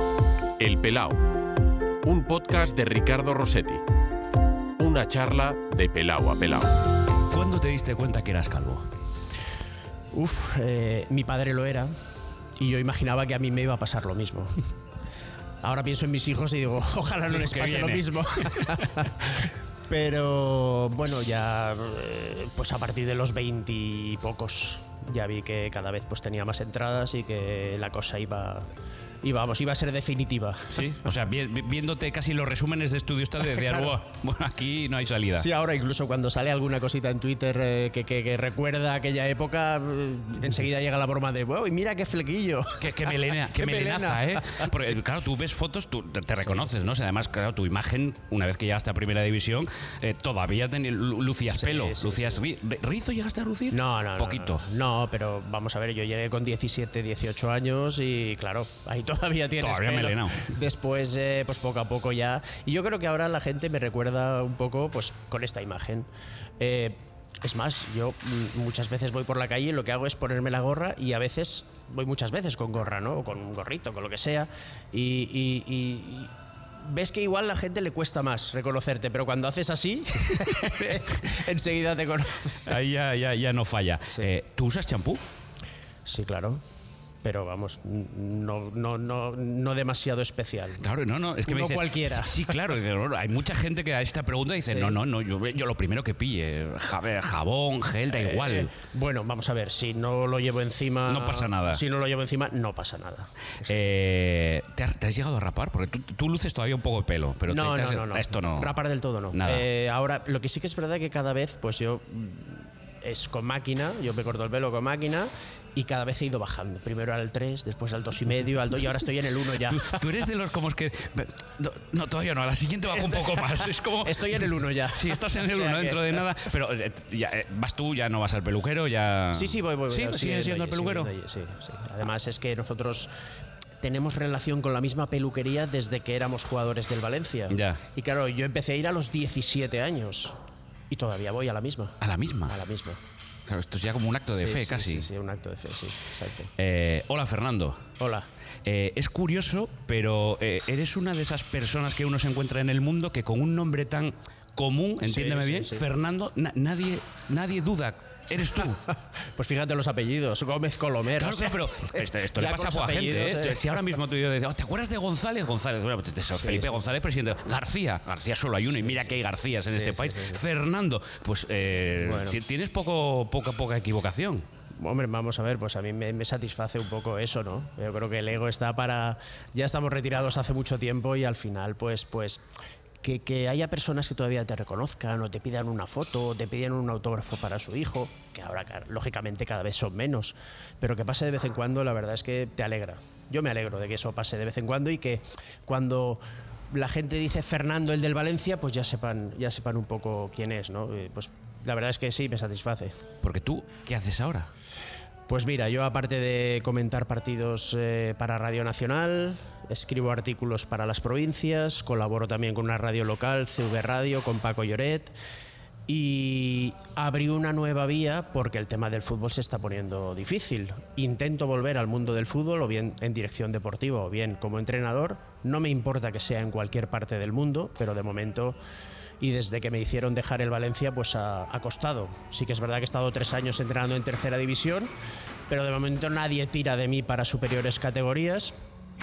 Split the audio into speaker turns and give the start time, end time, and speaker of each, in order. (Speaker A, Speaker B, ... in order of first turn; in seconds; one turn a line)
Speaker A: 0.6-1.2
Speaker A: 2.0-3.8
Speaker A: 4.8-6.7
Speaker B: 7.3-8.9
Speaker C: 10.1-11.9
Speaker C: 12.6-14.5
Speaker C: 15.6-28.7
Speaker B: 17.3-18.9
Speaker C: 29.2-30.9
Speaker B: 30.7-35.5
Speaker C: 33.5-34.0
Speaker C: 35.4-44.9
Speaker B: 42.8-54.6
Speaker C: 46.5-46.7
Speaker C: 51.5-52.4
Speaker C: 53.7-66.1
Speaker B: 59.6-60.5
Speaker C: 66.6-82.8
Speaker B: 82.6-85.2
Speaker C: 86.0-86.6
Speaker C: 87.2-90.8
Speaker B: 90.8-98.7
Speaker C: 91.4-92.5
Speaker C: 94.7-95.0
Speaker C: 98.1-103.9
Speaker B: 101.1-101.8
Speaker B: 103.7-108.7
Speaker C: 107.5-120.0
Speaker B: 109.3-109.6
Speaker B: 119.6-131.1
Speaker C: 122.9-126.2
Speaker C: 129.3-133.1
Speaker C: 133.8-140.3
Speaker B: 137.5-137.8
Speaker C: 140.9-143.0
Speaker B: 142.0-142.6
Speaker B: 143.5-145.1
Speaker C: 144.3-146.5
Speaker B: 146.6-147.8
Speaker C: 148.0-148.3
Speaker B: 148.6-158.8
Speaker C: 155.0-155.8
Speaker C: 158.8-163.8
Speaker B: 161.1-174.4
Speaker C: 166.4-166.8
Speaker C: 169.7-170.4
Speaker C: 172.0-172.4
Speaker C: 174.8-182.4
Speaker C: 183.0-196.2
Speaker C: 196.7-203.0
Speaker B: 203.2-204.5
Speaker C: 205.3-215.1
Speaker C: 215.9-228.6
Speaker C: 229.2-234.9
Speaker C: 235.5-238.5